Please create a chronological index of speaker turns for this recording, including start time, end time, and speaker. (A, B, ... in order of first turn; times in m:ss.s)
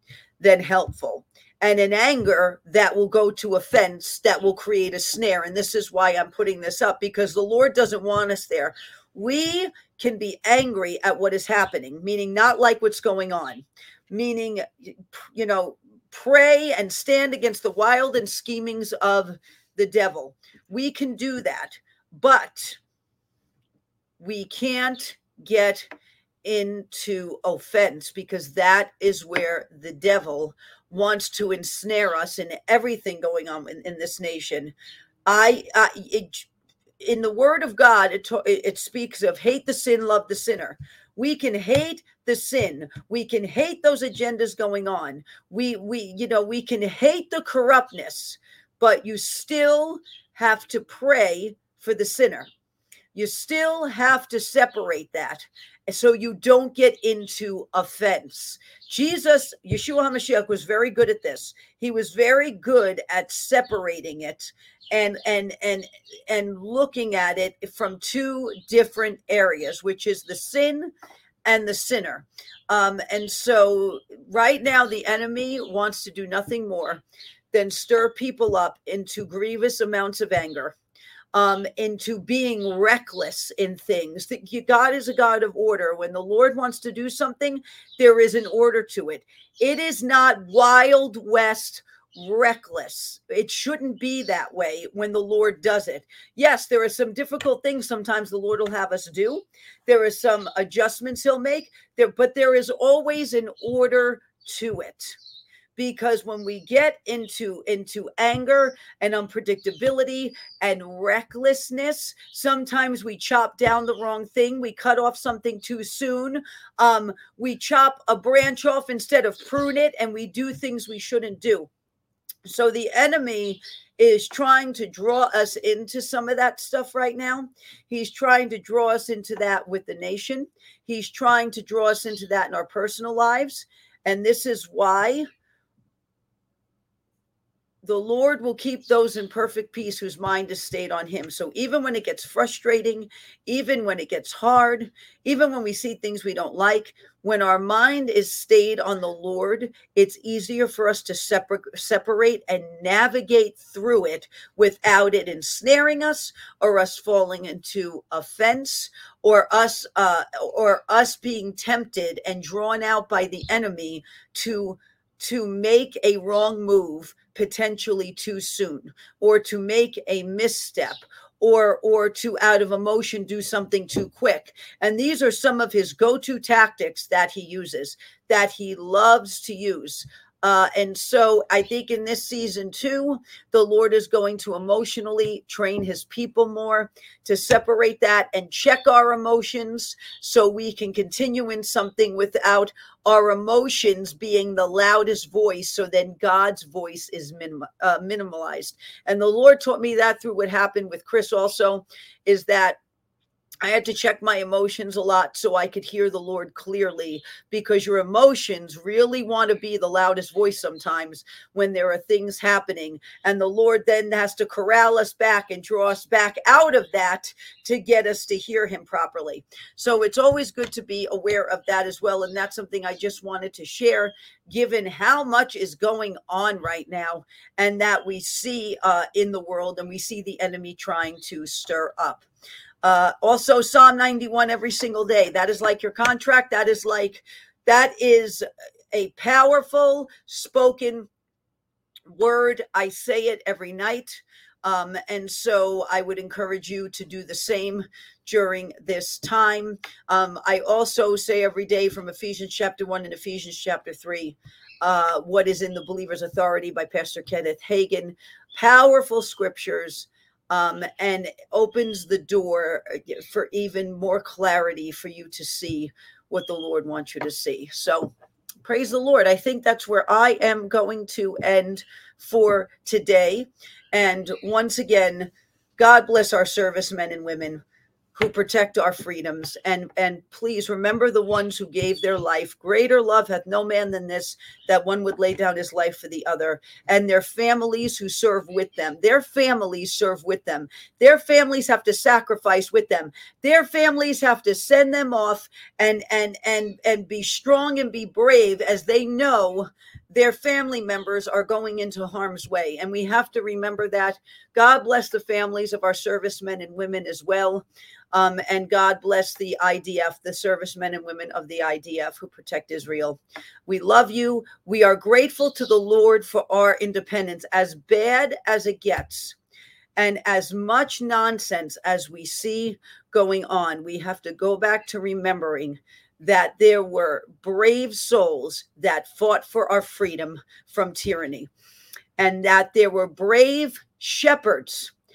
0:00.4-0:22.8 A
0:24.2-0:25.9 A
0:26.4-0:34.7 A
0:35.3-0:36.5 A
0:37.0-0:52.5 A
0:53.1-1:10.9 A
1:11.5-1:20.8 A
1:21.3-1:45.2 A
1:45.8-2:01.7 A
2:02.4-2:15.3 A
2:17.8-3:22.8 A
3:23.6-3:52.2 A
3:52.8-4:01.1 A
4:02.1-4:28.1 A
4:28.6-4:37.6 A
4:38.2-5:19.4 A
5:20.0-5:31.5 A
5:32.2-5:34.9 A